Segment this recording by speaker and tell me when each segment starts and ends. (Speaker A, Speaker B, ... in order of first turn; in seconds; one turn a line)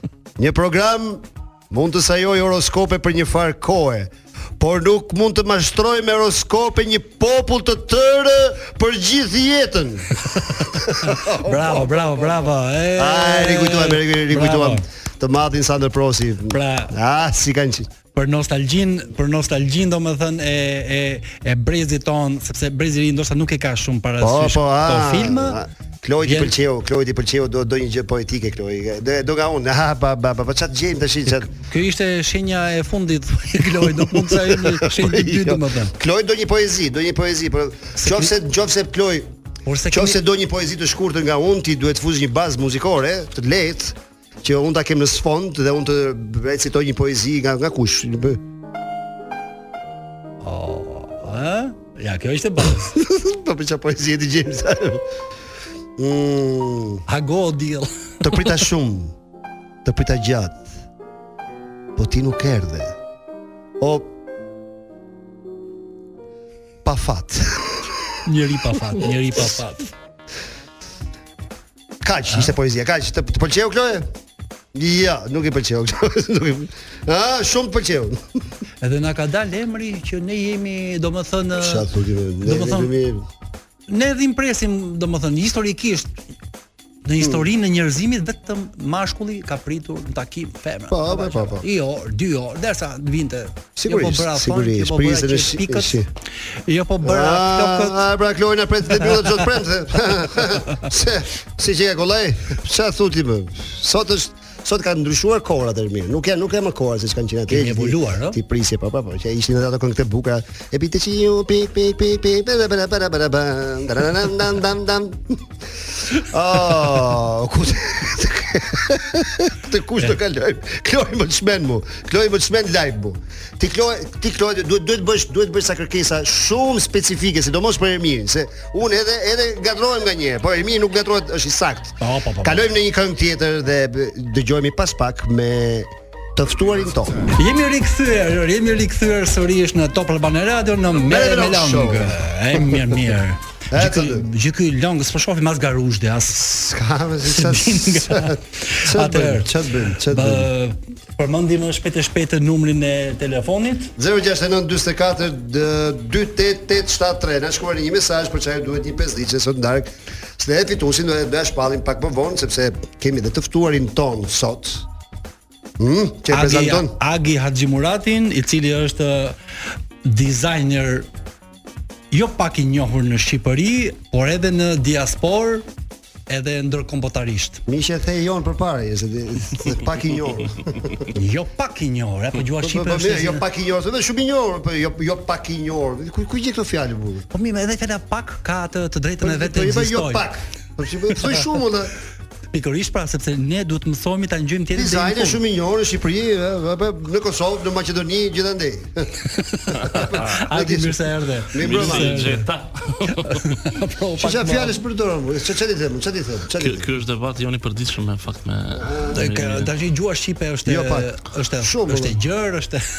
Speaker A: 0.4-17.9
Speaker B: 10.4-14.8
Speaker B: 16.5-16.9
Speaker B: 18.1-25.6
Speaker A: 24.2-31.5
Speaker B: 26.2-26.5
Speaker B: 31.6-35.9
Speaker A: 33.8-39.3
Speaker B: 38.0-38.3
Speaker B: 39.6-40.2
Speaker A: 39.9-48.4
Speaker B: 50.4-53.0
Speaker A: 52.9-55.0
Speaker A: 56.0-57.0
Speaker B: 57.1-58.5
Speaker A: 58.2-59.1
Speaker A: 59.8-60.7
Speaker A: 62.0-63.0
Speaker A: 63.8-64.1
Speaker A: 66.8-67.9
Speaker B: 68.2-69.9
Speaker A: 72.0-74.1
Speaker A: 74.7-78.2
Speaker B: 78.8-81.9
Speaker A: 81.5-83.2
Speaker B: 82.4-82.9
Speaker B: 83.9-86.2
Speaker B: 87.0-96.0
Speaker A: 90.9-91.6
Speaker A: 93.8-96.1
Speaker B: 96.7-98.0
Speaker A: 97.0-115.4
Speaker B: 107.5-108.4
Speaker A: 116.1-137.3
Speaker B: 132.0-132.6
Speaker B: 137.3-146.5
Speaker A: 141.1-142.8
Speaker A: 143.7-144.2
Speaker A: 146.4-150.5
Speaker B: 147.2-153.9
Speaker A: 154.0-164.9
Speaker A: 165.8-166.9
Speaker B: 166.3-169.3
Speaker B: 170.0-171.1
Speaker B: 172.1-175.7
Speaker B: 176.3-177.6
Speaker A: 177.7-181.1
Speaker B: 181.1-183.4
Speaker A: 182.6-187.2
Speaker B: 187.3-190.2
Speaker A: 189.2-191.9
Speaker B: 192.5-195.4
Speaker A: 194.7-199.2
Speaker B: 199.6-202.5
Speaker A: 199.8-202.3
Speaker C: 200.0-200.3
Speaker C: 201.6-203.5
Speaker B: 203.2-204.8
Speaker A: 204.2-206.9
Speaker C: 206.6-209.7
Speaker A: 208.8-209.2
Speaker B: 209.1-212.8
Speaker A: 210.7-212.2